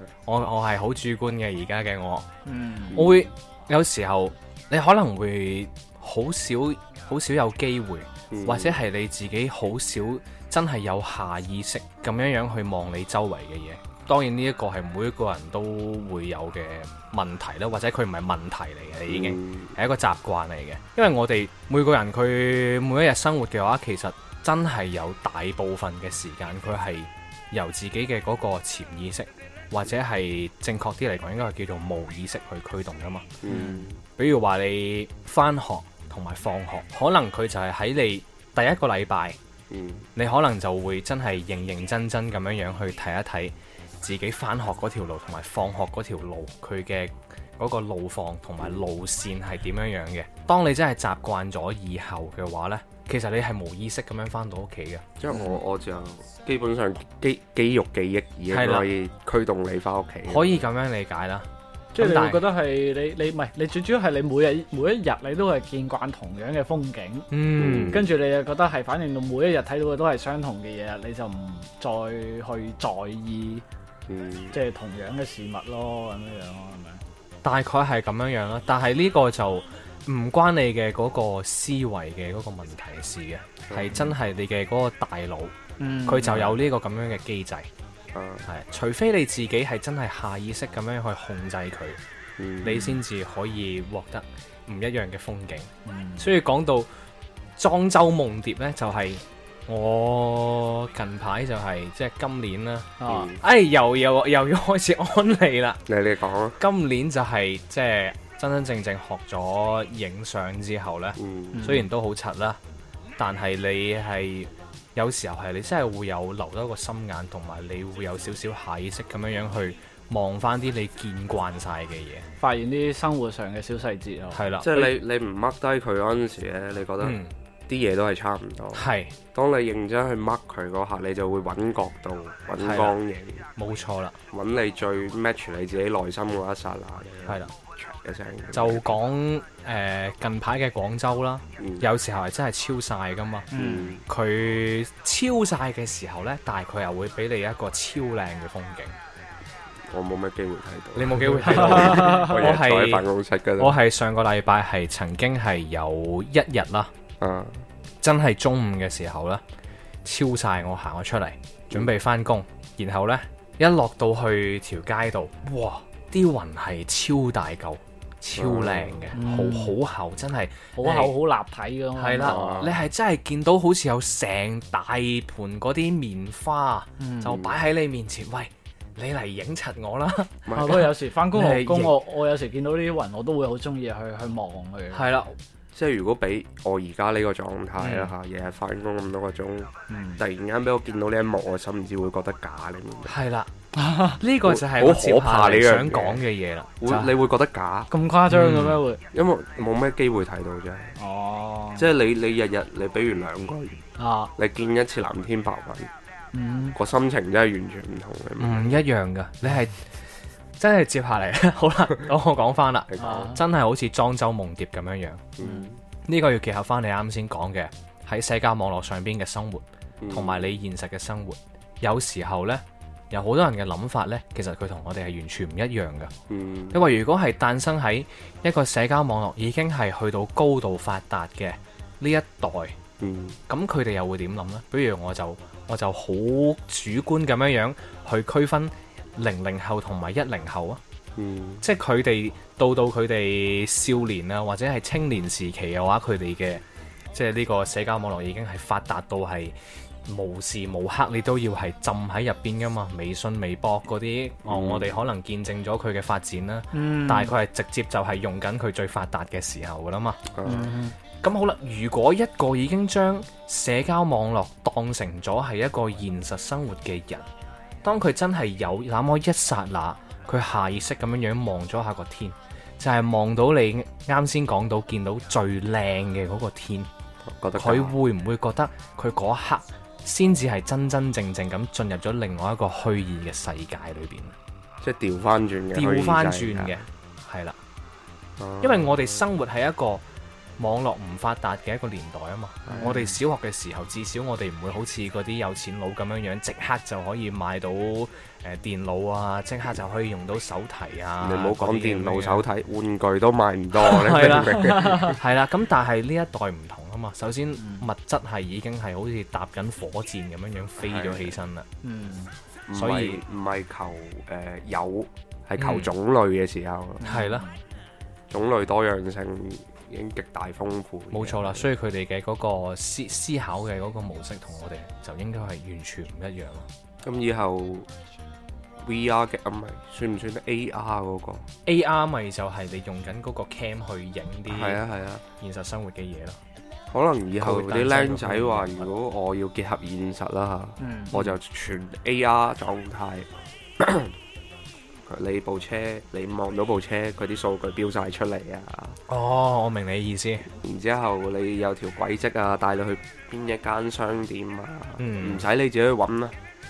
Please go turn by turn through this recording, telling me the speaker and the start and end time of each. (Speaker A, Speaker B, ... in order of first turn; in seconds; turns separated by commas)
Speaker A: 0.2-2.3, Speaker B: 2.5-3.0, Speaker C: 2.9-3.3, Speaker A: 2.9-33.4, Speaker C: 8.3-8.8, Speaker C: 19.1-19.7, Speaker C: 33.4-34.0, Speaker B: 33.5-33.9, Speaker A: 34.2-39.4, Speaker C: 39.7-40.1, Speaker A: 40.1-55.0, Speaker C: 55.2-60.6, Speaker A: 58.5-58.9, Speaker A: 60.3-62.4, Speaker B: 61.9-67.3, Speaker A: 67.3-68.0, Speaker C: 67.6-68.1, Speaker B: 67.9-73.6, Speaker C: 74.1-74.5, Speaker B: 74.5-77.0, Speaker A: 77.4-87.7, Speaker C: 83.7-84.2, Speaker B: 85.8-86.6, Speaker C: 88.1-88.5, Speaker A: 88.5-92.0, Speaker C: 92.4-92.8, Speaker A: 92.6-96.9, Speaker B: 92.7-92.9, Speaker B: 95.8-96.3, Speaker A: 97.6-105.8, Speaker B: 103.0-103.3, Speaker C: 103.1-103.4, Speaker C: 105.9-106.6, Speaker A: 106.6-112.6, Speaker C: 111.2-111.7, Speaker B: 111.5-111.9, Speaker A: 113.2-122.2, Speaker B: 122.4-124.4, Speaker A: 124.3-124.9, Speaker C: 124.6-133.4, Speaker A: 127.0-127.3, Speaker A: 128.7-129.1, Speaker A: 132.6-132.9, Speaker A: 133.6-134.2, Speaker C: 134.3-139.0, Speaker A: 137.2-137.5, Speaker A: 138.5-143.5, Speaker C: 141.6-141.8, Speaker B: 143.5-143.9, Speaker C: 143.5-144.0, Speaker A: 144.1-148.9, Speaker C: 149.9-153.8, Speaker A: 150.9-153.1, Speaker B: 152.0-152.2, Speaker A: 153.6-156.9, Speaker C: 157.2-157.6, Speaker A: 158.0-159.4, Speaker A: 160.0-171.1, Speaker C: 168.3-169.0, Speaker B: 169.1-169.8, Speaker B: 170.8-172.6, Speaker A: 171.9-182.0, Speaker C: 172.2-172.8, Speaker B: 177.0-177.4, Speaker C: 177.2-177.6, Speaker C: 180.4-180.8, Speaker B: 180.5-185.1, Speaker A: 184.9-185.3, Speaker C: 185.7-193.1, Speaker A: 187.8-188.1, Speaker B: 189.9-190.2, Speaker A: 193.1-193.5, Speaker B: 193.7-194.2, Speaker A: 194.1-197.1, Speaker C: 194.4-196.2, Speaker C: 196.8-197.9, Speaker B: 197.9-199.0, Speaker A: 198.3-198.8, Speaker C: 199.1-200.9, Speaker B: 201.0-201.9, Speaker C: 201.8-203.8, Speaker B: 204.0-204.3, Speaker C: 204.3-205.9, Speaker B: 206.3-206.8, Speaker C: 206.7-208.8, Speaker A: 208.4-209.8, Speaker A: 210.6-215.3, Speaker C: 212.9-213.3, Speaker B: 213.0-213.4, Speaker C: 215.4-215.8, Speaker B: 215.4-215.7, Speaker A: 216.1-226.1, Speaker C: 220.0-220.5, Speaker C: 226.3-226.8, Speaker A: 226.7-232.8, Speaker C: 233.0-233.4, Speaker A: 233.5-240.8, Speaker C: 241.2-241.6, Speaker A: 241.6-246.6, Speaker A: 247.1-260.3, Speaker C: 254.4-255.0, Speaker B: 256.7-257.3, Speaker C: 260.3-260.7, Speaker B: 260.4-260.9, Speaker A: 261.2-267.2, Speaker A: 267.8-276.9, Speaker C: 277.3-277.9, Speaker A: 277.5-284.3, Speaker C: 284.8-286.8, Speaker A: 285.7-287.6, Speaker C: 288.4-289.1, Speaker A: 288.6-290.0, Speaker A: 290.6-302.4, Speaker C: 292.6-293.0, Speaker B: 292.8-293.1, Speaker C: 301.2-305.2, Speaker A: 303.8-311.6, Speaker B: 304.6-305.1, Speaker B: 307.6-307.9, Speaker C: 310.8-311.4, Speaker B: 311.8-312.3, Speaker C: 312.7-317.0, Speaker A: 312.7-313.2, Speaker A: 315.6-315.9, Speaker B: 317.0-317.6, Speaker A: 317.0-317.4, Speaker C: 318.3-321.7, Speaker A: 321.1-326.7, Speaker C: 327.0-327.9, Speaker C: 328.8-331.4, Speaker A: 331.6-334.8, Speaker C: 334.5-335.2, Speaker A: 335.4-336.4, Speaker C: 336.9-344.1, Speaker A: 337.4-338.9, Speaker B: 340.8-341.2, Speaker C: 345.1-349.0, Speaker A: 349.1-350.5, Speaker C: 350.5-356.4, Speaker A: 355.0-355.4